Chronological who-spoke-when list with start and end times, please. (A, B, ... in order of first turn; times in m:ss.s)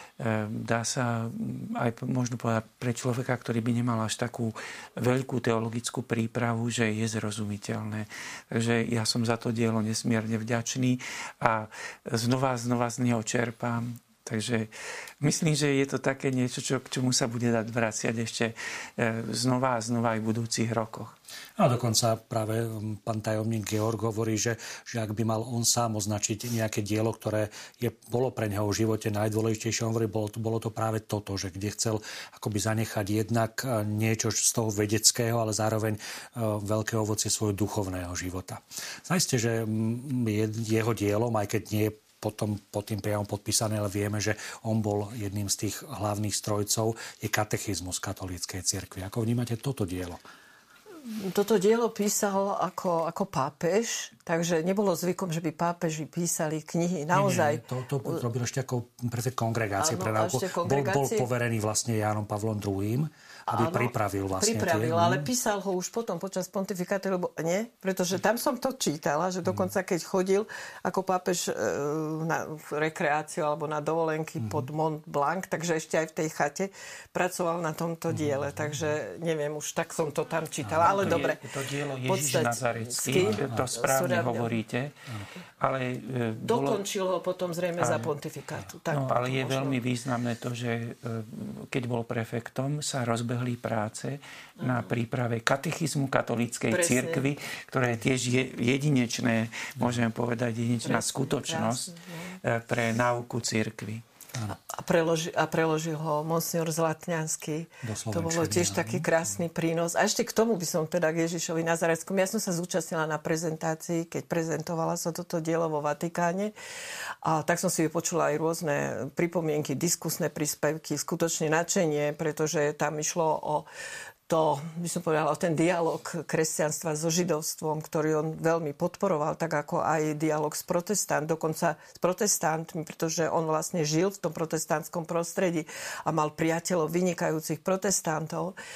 0:00.2-0:21.1 A
0:21.6-0:50.2 B
0:51.0-0:58.2 C
0:57.1-1:05.3 B
0:59.8-1:01.3 C
1:03.5-1:21.4 C
1:14.4-1:14.7 B
1:18.1-1:18.9 B
1:20.6-1:21.2 B
1:20.8-1:25.0 A
1:22.0-1:24.5 C
1:23.2-1:23.7 B
1:25.6-1:26.8 A
1:26.4-1:29.8 C
1:27.8-1:28.1 A
1:28.9-1:44.0 A
1:34.6-1:34.9 C
1:36.7-1:37.3 C
1:40.8-1:42.4 C
1:44.5-1:56.5 C
1:47.8-1:49.1 B
1:57.2-2:03.7 C
2:04.3-2:18.6 C